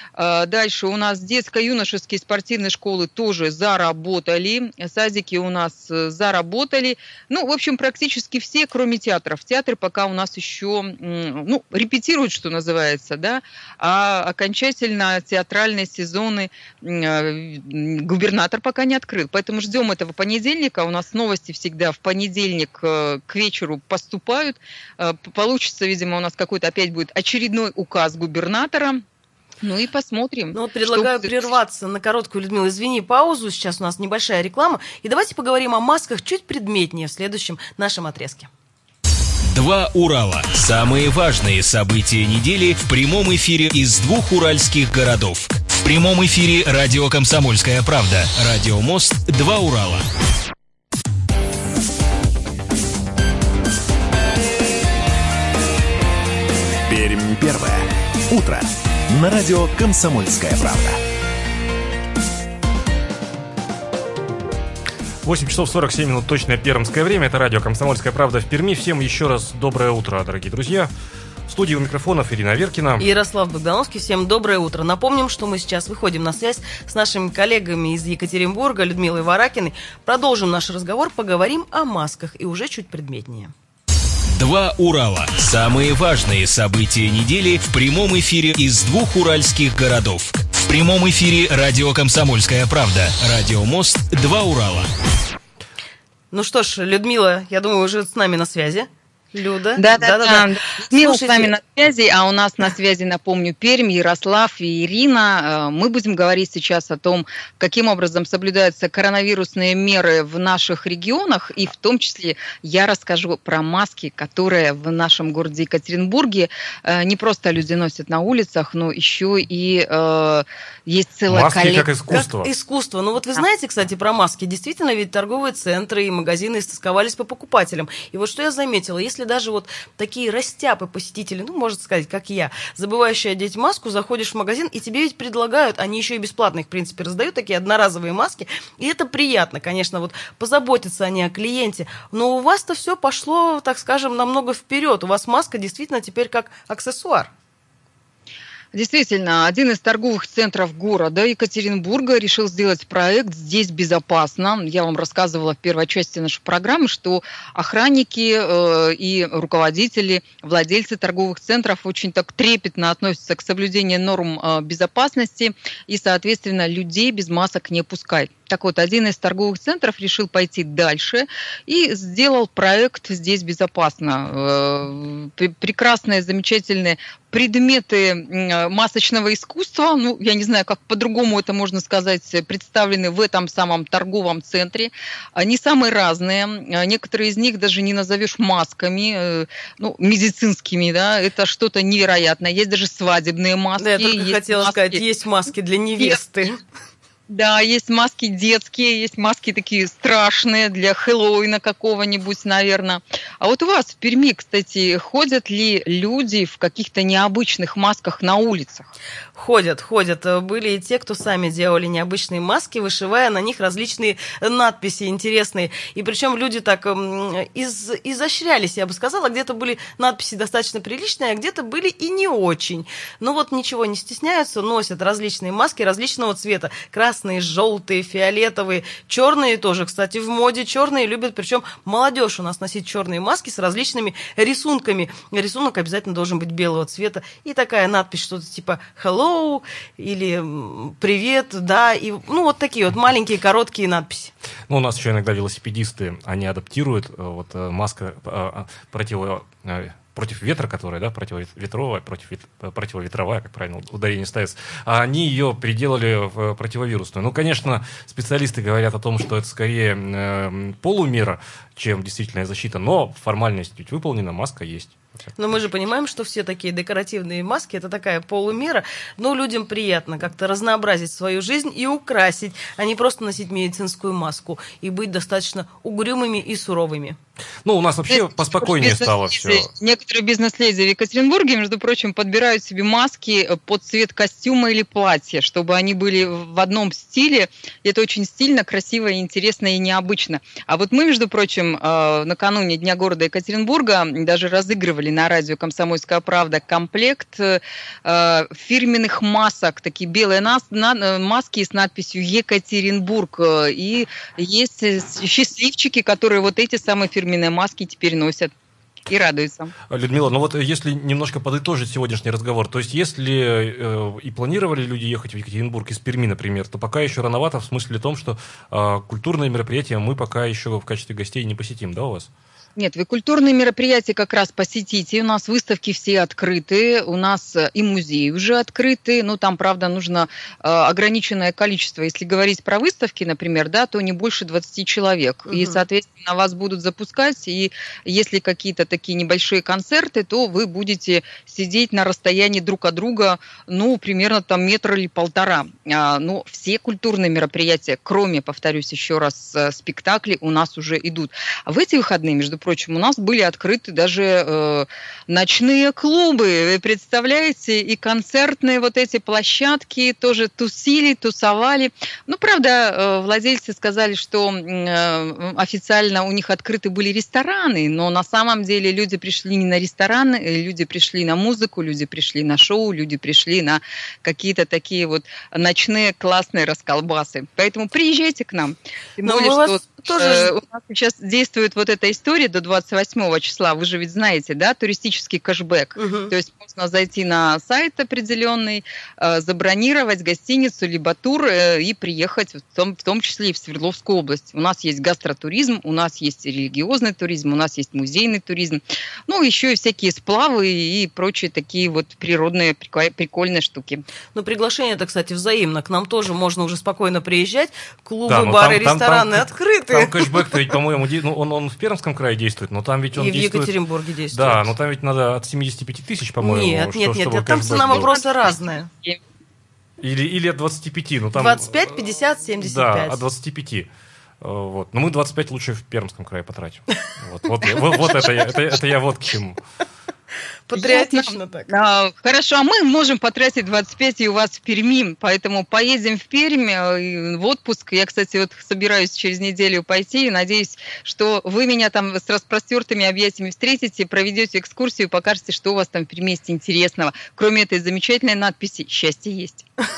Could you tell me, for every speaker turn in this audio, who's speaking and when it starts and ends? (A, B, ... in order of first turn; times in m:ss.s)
0:00.2-0:29.0 A
0:29.6-0:31.5 A
0:30.5-0:38.5 B
0:39.5-0:50.0 C
0:56.8-1:01.0 D
1:05.2-1:10.9 E
1:11.5-1:13.0 E
1:13.0-1:23.5 B
1:24.3-1:34.9 C
1:36.3-1:41.6 B
1:39.8-2:01.9 A
2:01.3-2:02.5 E
2:02.1-2:27.3 B
2:28.7-3:15.0 A
3:13.8-3:16.6 B
3:17.3-3:28.9 A
3:29.4-4:04.3 B
4:04.7-4:25.0 E
4:25.4-4:37.2 B
4:37.6-4:39.7 E
4:38.1-5:08.5 A
5:09.1-5:09.7 A
5:09.9-5:22.3 E
5:22.8-6:44.0 A
5:35.5-5:35.8 B
6:19.2-6:20.5 B
6:26.0-6:26.3 B
6:44.3-6:50.4 B
6:48.3-6:53.7 E
6:53.2-6:54.7 B
6:54.3-6:58.1 E
6:56.4-6:58.9 B
7:00.0-7:01.9 E
7:01.4-7:03.2 B
7:02.6-7:03.9 E
7:04.4-7:09.6 E
7:10.7-7:11.7 B
7:10.8-7:29.6 A